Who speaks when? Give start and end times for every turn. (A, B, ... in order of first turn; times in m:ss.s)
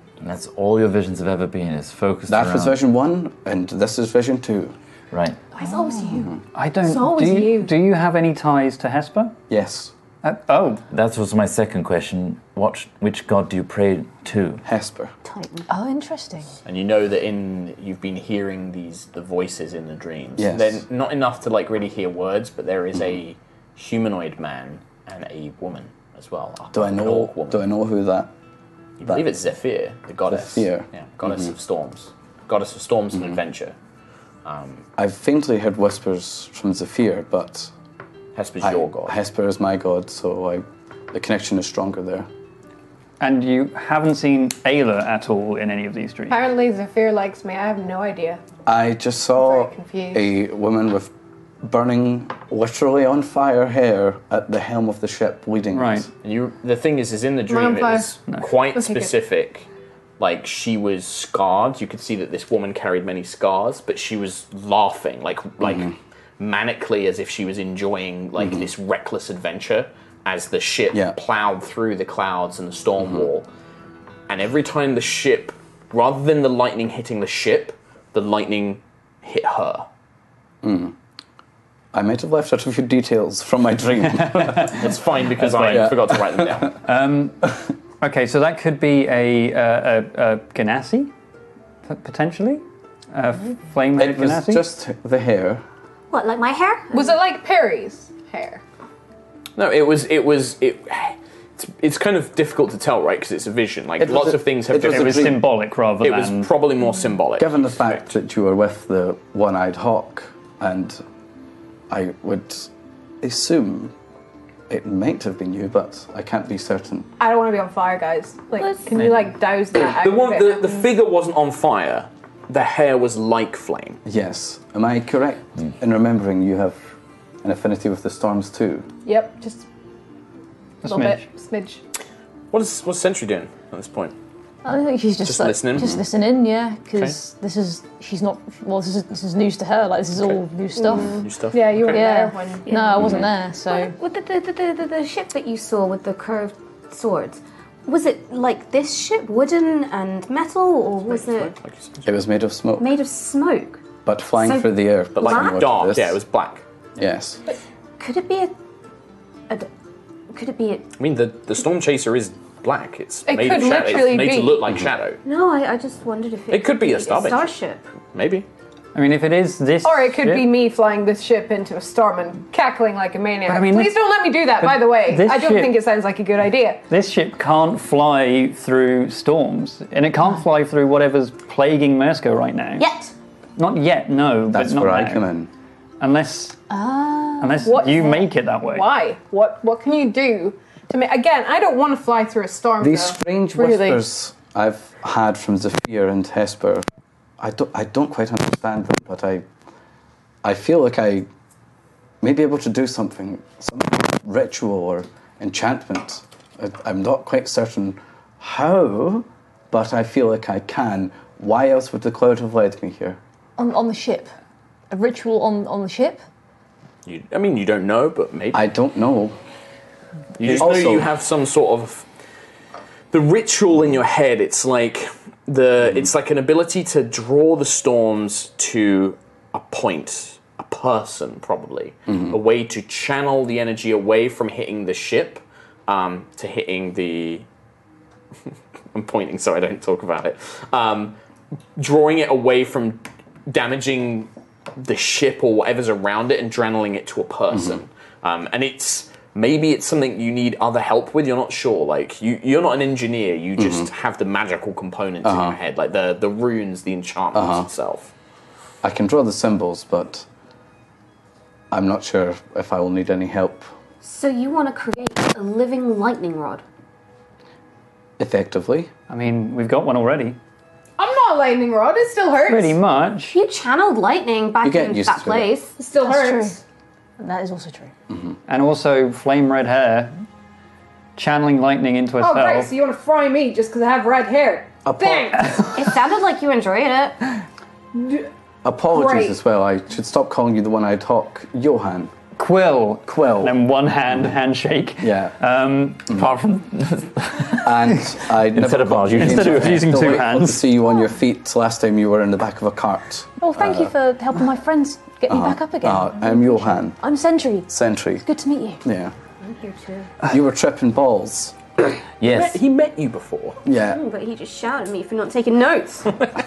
0:00.2-0:02.8 A
0:02.3-0:04.8 B
0:05.1-0:05.4 A
0:05.6-0:06.3 C
0:06.5-0:09.3 D
0:06.8-0:07.8 E
0:09.5-0:09.9 B
0:10.2-0:10.8 D
0:10.9-0:14.6 A
0:14.6-0:15.1 B
0:15.2-0:15.7 F
0:15.7-0:16.5 C
0:16.6-0:27.6 G
0:20.4-0:20.8 B
0:26.7-0:28.3 B
0:29.0-0:33.8 G
0:30.3-0:31.5 B
0:34.4-0:34.8 G
0:35.0-0:37.7 B
0:38.3-0:39.2 G
0:38.6-0:42.3 B
0:43.2-0:46.4 D
0:46.3-0:48.4 E
0:48.6-0:51.1 B
0:49.4-0:50.3 E
0:51.6-0:56.1 B
0:55.7-0:56.1 D
0:56.2-0:59.6 G
0:57.5-0:59.1 E
1:00.2-1:13.5 G
1:05.6-1:05.9 B
1:14.3-1:19.8 G
1:20.6-1:21.0 B
1:21.9-1:24.9 B
1:24.4-1:24.7 D
1:24.7-1:26.8 G
1:25.4-1:25.8 D
1:25.5-1:26.7 B
1:26.8-1:31.1 D
1:31.8-1:34.6 D
1:34.0-1:35.6 B
1:36.1-1:37.2 F
1:36.9-1:38.6 E
1:39.6-1:45.4 G
1:44.0-1:45.4 B
1:44.8-1:46.5 D
1:46.0-1:47.8 G
1:47.4-1:51.0 B
1:51.9-1:52.7 B
1:53.2-1:53.9 B
1:54.7-1:57.1 B
1:57.2-2:00.9 E
1:59.7-2:04.0 G
2:04.0-2:06.8 B
2:07.4-2:08.9 B
2:09.0-2:09.6 E
2:10.8-2:11.2 D
2:10.8-2:11.8 E
2:12.5-2:14.1 G
2:14.6-2:21.2 C
2:15.2-2:16.0 G
2:20.2-2:20.4 G
2:20.7-2:22.7 E
2:21.0-2:22.0 G
2:21.9-2:23.9 C
2:22.6-2:31.5 F
2:31.1-2:32.1 G
2:32.0-2:33.0 B
2:32.8-2:35.7 F
2:34.0-2:36.2 B
2:35.2-2:36.6 G
2:37.0-2:37.4 B
2:38.0-2:38.5 F
2:40.3-2:40.8 F
2:41.0-2:45.2 G
2:43.3-2:44.6 E
2:45.2-2:47.8 F
2:46.5-2:47.5 G
2:48.1-2:48.4 G
2:48.9-2:50.5 D
2:49.8-2:56.8 E
2:53.5-2:54.0 D
2:54.6-2:55.7 D
2:56.9-3:02.9 D
3:02.8-3:03.1 F
3:03.6-3:05.2 D
3:04.5-3:05.5 B
3:06.0-3:06.6 D
3:06.7-3:08.0 C
3:07.4-3:08.9 D
3:07.6-3:14.0 E
3:12.8-3:16.8 B
3:17.4-3:19.5 B
3:20.4-3:21.3 B
3:22.2-3:33.2 B
3:33.6-3:34.3 C
3:34.9-3:36.2 C
3:37.0-3:38.6 G
3:38.5-3:39.4 B
3:40.4-3:42.0 G
3:40.4-3:41.1 B
3:43.1-3:57.4 G
3:52.1-3:52.3 B
3:58.5-4:01.2 G
4:01.8-4:18.1 G
4:07.5-4:07.8 B
4:13.6-4:13.9 B
4:15.2-4:15.6 B
4:17.3-4:17.7 B
4:18.8-4:20.2 B
4:21.7-4:23.7 B
4:24.0-4:26.6 F
4:28.2-4:28.9 B
4:29.1-4:30.4 D
4:31.0-4:32.8 E
4:32.4-4:33.3 D
4:33.3-4:35.8 F
4:34.6-4:35.5 B
4:35.8-4:36.6 E
4:36.0-4:36.6 C
4:37.2-4:37.9 C
4:38.1-4:38.3 B
4:38.5-4:40.1 D
4:41.2-4:42.7 D
4:42.2-4:45.6 E
4:44.8-4:45.6 B
4:45.7-4:47.2 F
4:48.0-4:48.2 E
4:48.6-4:52.1 B
4:48.9-4:49.4 E
4:52.4-4:56.1 D
4:53.0-4:53.6 B
4:55.0-4:55.3 B
4:56.1-4:57.7 A
4:57.6-5:03.9 B
4:58.4-5:00.2 A
4:59.2-5:00.7 D
5:03.4-5:08.8 C
5:05.3-5:07.0 B
5:07.7-5:08.2 B
5:08.8-5:09.1 B
5:09.4-5:10.1 F
5:10.3-5:11.6 B
5:12.2-5:12.6 A
5:12.2-5:13.6 G
5:13.6-5:14.0 B
5:13.8-5:16.2 F